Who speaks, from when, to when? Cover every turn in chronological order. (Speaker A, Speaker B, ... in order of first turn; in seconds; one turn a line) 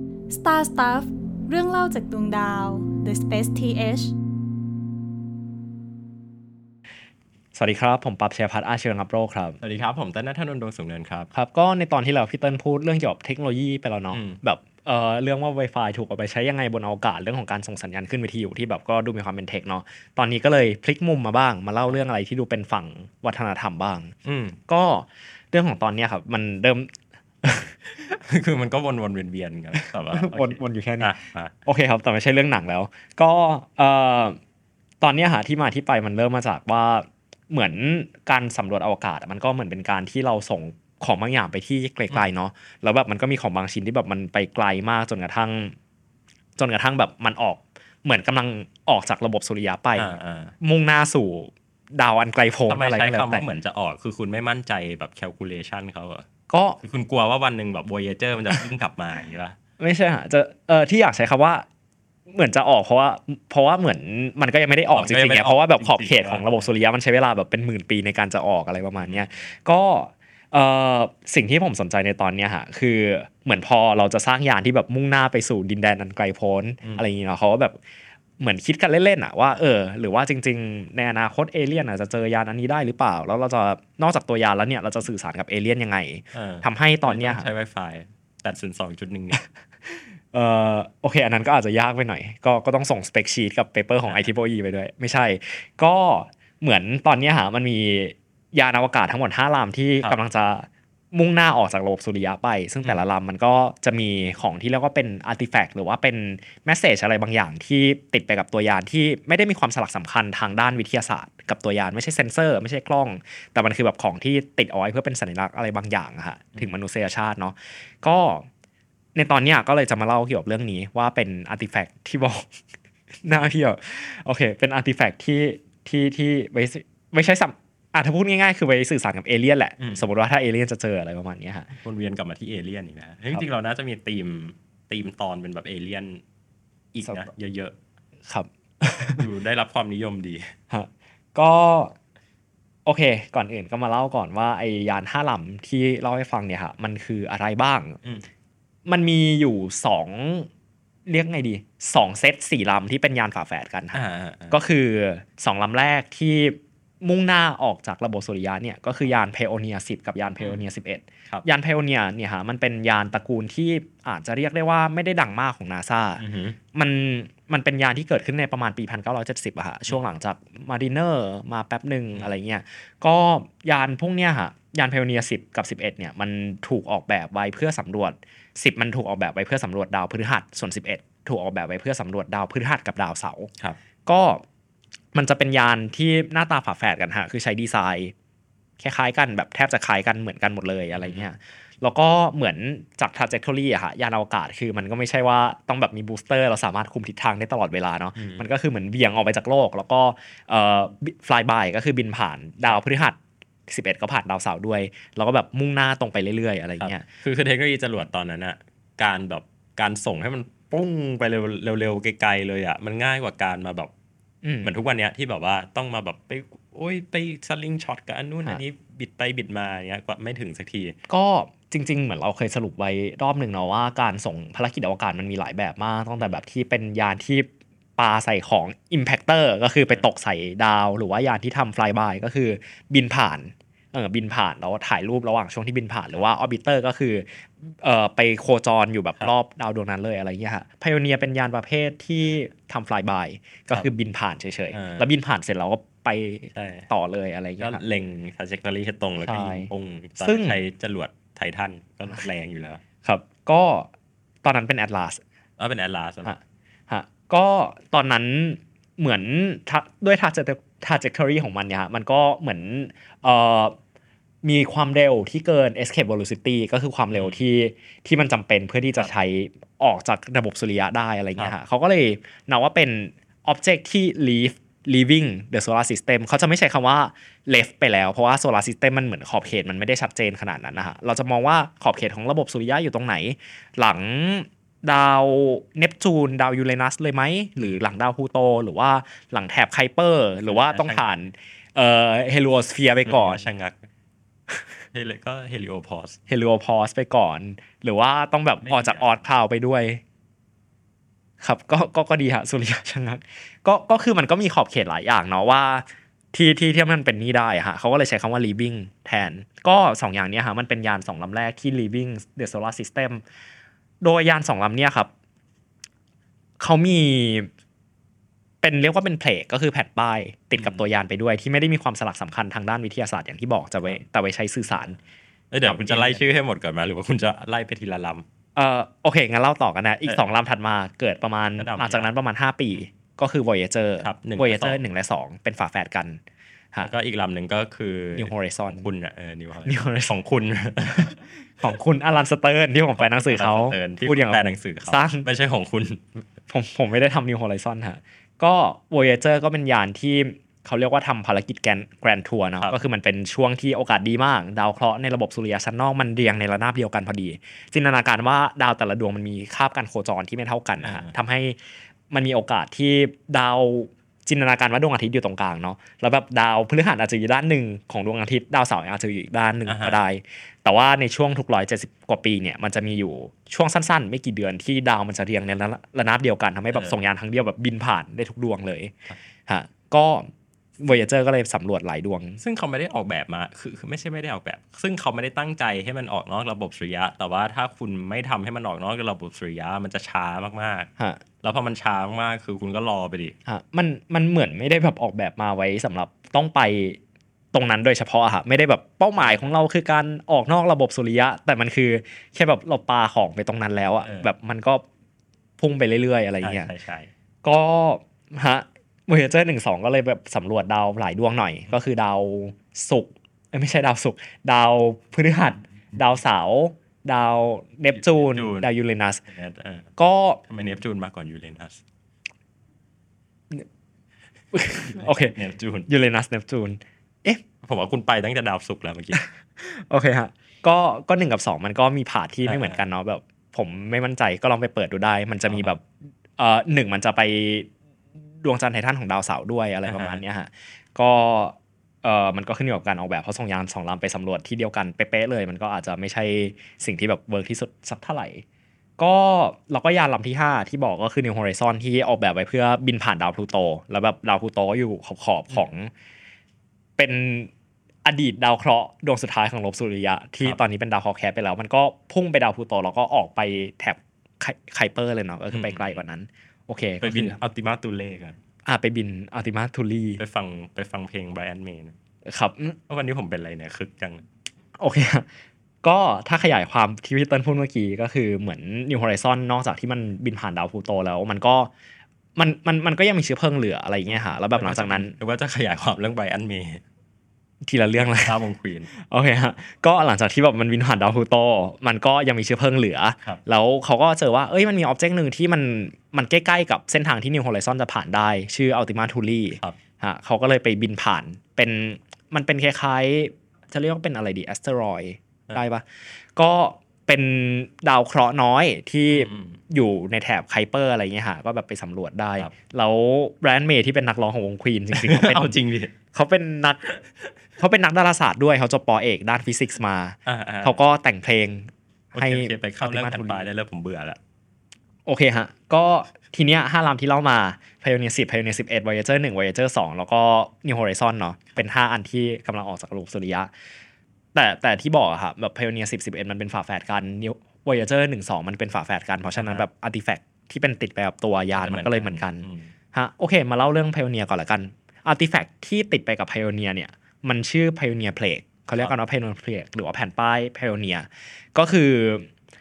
Speaker A: 0.3-4.1
Speaker B: 7.5-9.6
Speaker C: 9.6-11.3
Speaker B: 11.3-24.1
Speaker C: 14.1-14.4
Speaker C: 24.2-24.6
Speaker B: 24.7-26.9
Speaker B: 27.4-27.7
Speaker C: 27.9-31.5
Speaker B: 30.1-31.1
Speaker B: 31.6-34.4
Speaker B: 35.0-45.7
Speaker B: 46.6-50.1
Speaker C: 50.0-50.5
Speaker B: 50.6-53.5
Speaker C: 52.7-56.2
Speaker B: 56.5-56.8
Speaker C: 56.8-59.6
Speaker B: 59.8-61.6
Speaker B: 62.3-77.8
Speaker C: 64.9-66.7
Speaker C: 69.0-69.3
Speaker B: 78.4-87.5
Speaker C: 86.3-89.4
Speaker B: 89.9-118.5
Speaker B: 119.1-122.5
Speaker B: 123.2-131.7
Speaker C: 129.8-130.0
Speaker C: 131.8-136.2
Speaker C: 136.9-137.8
Speaker B: 138.3-139.2
Speaker C: 139.2-140.5
Speaker B: 140.7-141.9
Speaker B: 142.8-148.0
Speaker B: 148.8-150.5
Speaker B: 151.1-166.2
Speaker C: 153.9-154.5
Speaker C: 166.2-166.6
Speaker B: 166.7-183.5
Speaker B: 184.1-184.4
Speaker B: 185.1-188.1
Speaker B: 188.8-207.0
Speaker C: 190.9-191.3
Speaker C: 198.1-198.4
Speaker C: 206.8-213.9
Speaker B: 214.4-214.7
Speaker C: 214.6-221.0
Speaker B: 221.1-247.8
Speaker C: 244.7-245.0
Speaker C: 246.5-246.9
Speaker C: 247.6-252.8
Speaker B: 249.2-249.7
Speaker B: 250.2-250.6
Speaker B: 253.0-253.9
Speaker B: 254.4-255.2
Speaker C: 255.6-256.3
Speaker B: 256.2-263.8
Speaker B: 264.4-293.5
Speaker C: 267.1-267.4
Speaker C: 290.5-291.0
Speaker C: 293.0-293.9
Speaker C: 294.9-296.2
Speaker B: 296.3-300.0
Speaker C: 298.6-299.1
Speaker B: 301.4-313.2
Speaker B: 314.0-315.1
Speaker B: 316.6-317.5
Speaker B: 318.6-325.0
Speaker C: 325.5-328.2
Speaker B: 325.6-326.2
Speaker B: 328.6-336.2
Speaker C: 331.6-332.1
Speaker C: 334.0-334.8
Speaker C: 336.8-341.2
Speaker B: 338.1-338.9
Speaker B: 339.6-340.1
Speaker B: 341.6-345.3
Speaker C: 343.0-346.1
Speaker B: 346.5-361.6
Speaker C: 360.8-361.1
Speaker B: 362.1-378.9
Speaker C: 369.6-370.0
Speaker B: 379.5-380.3
Speaker B: 380.8-382.4
Speaker C: 382.4-390.9
Speaker C: 391.4-393.4
Speaker B: 393.4-397.0
Speaker B: 397.5-404.8
Speaker C: 404.0-404.3
Speaker B: 405.6-406.7
Speaker C: 406.4-407.1
Speaker B: 407.4-419.2
Speaker C: 417.9-418.7
Speaker C: 419.3-419.9
Speaker B: 420.0-420.4
Speaker C: 420.5-421.8
Speaker B: 424.5-425.4
Speaker C: 424.9-425.9
Speaker B: 425.9-427.4
Speaker C: 427.6-429.2
Speaker B: 429.1-435.8
Speaker C: 432.4-432.8
Speaker C: 435.5-435.7
Speaker B: 436.4-437.7
Speaker B: 438.4-448.4
Speaker C: 439.9-440.2
Speaker B: 449.0-455.9
Speaker B: 457.0-457.5
Speaker B: 458.0-467.4
Speaker C: 465.5-466.0
Speaker C: 467.0-468.4
Speaker B: 468.6-470.2
Speaker C: 470.2-471.9
Speaker B: 472.2-472.8
Speaker C: 472.9-474.2
Speaker B: 474.8-475.3
Speaker B: 475.8-481.7
Speaker B: 482.4-485.1
Speaker C: 484.1-486.8
Speaker B: 487.6-488.4
Speaker C: 488.2-488.9
Speaker B: 488.9-505.8
Speaker B: 506.4-515.5
Speaker C: 509.1-509.6
Speaker C: 514.9-515.9
Speaker B: 516.1-516.9
Speaker B: 517.6-523.4
Speaker C: 520.2-520.8
Speaker C: 522.1-524.2
Speaker B: 525.0-533.5
Speaker B: 534.3-552.3
Speaker C: 539.4-539.6
Speaker C: 541.5-542.7